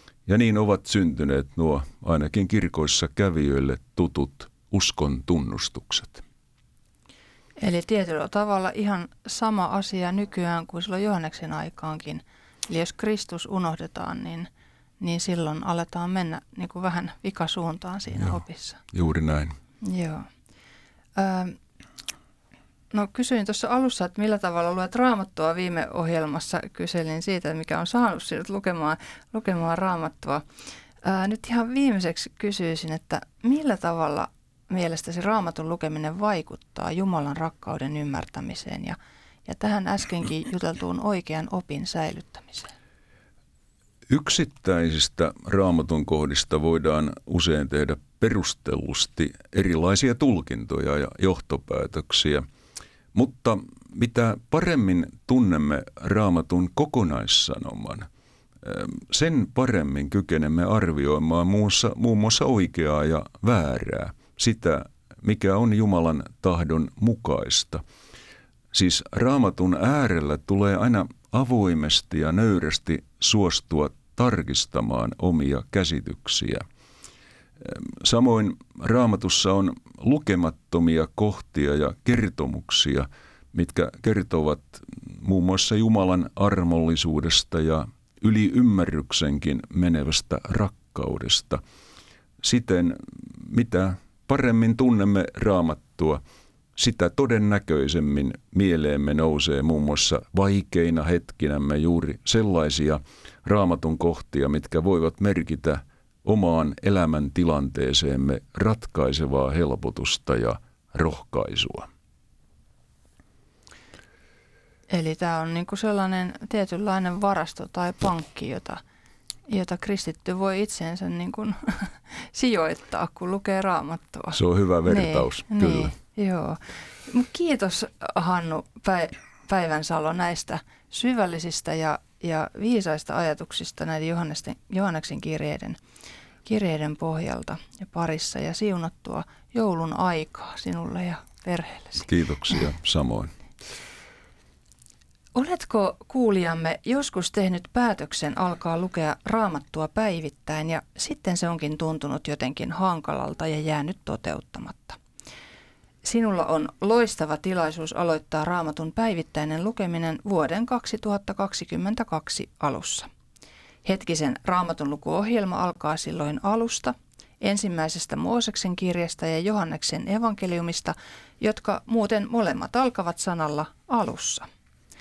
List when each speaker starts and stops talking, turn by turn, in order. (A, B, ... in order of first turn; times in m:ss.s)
0:00.2-0:06.2 A
0:07.6-0:14.5 B
0:15.0-0:18.8 B
0:18.9-0:19.6 A
0:19.8-0:20.3 B
0:21.1-0:21.6 B
0:22.9-0:30.4 B
0:31.0-0:42.7 B
0:44.1-0:52.4 A
0:53.1-0:58.1 A
0:58.6-1:07.8 A
1:08.7-1:16.6 A
1:17.6-1:31.6 A
1:32.4-1:36.2 A
1:36.8-1:51.9 A
1:54.9-1:58.8 B
1:59.5-2:15.8 B
2:04.3-2:05.9 A
2:16.4-2:22.1 B
2:22.0-2:23.3 A
2:25.3-2:35.0 B
2:36.0-2:43.1 B
2:43.8-2:54.4 B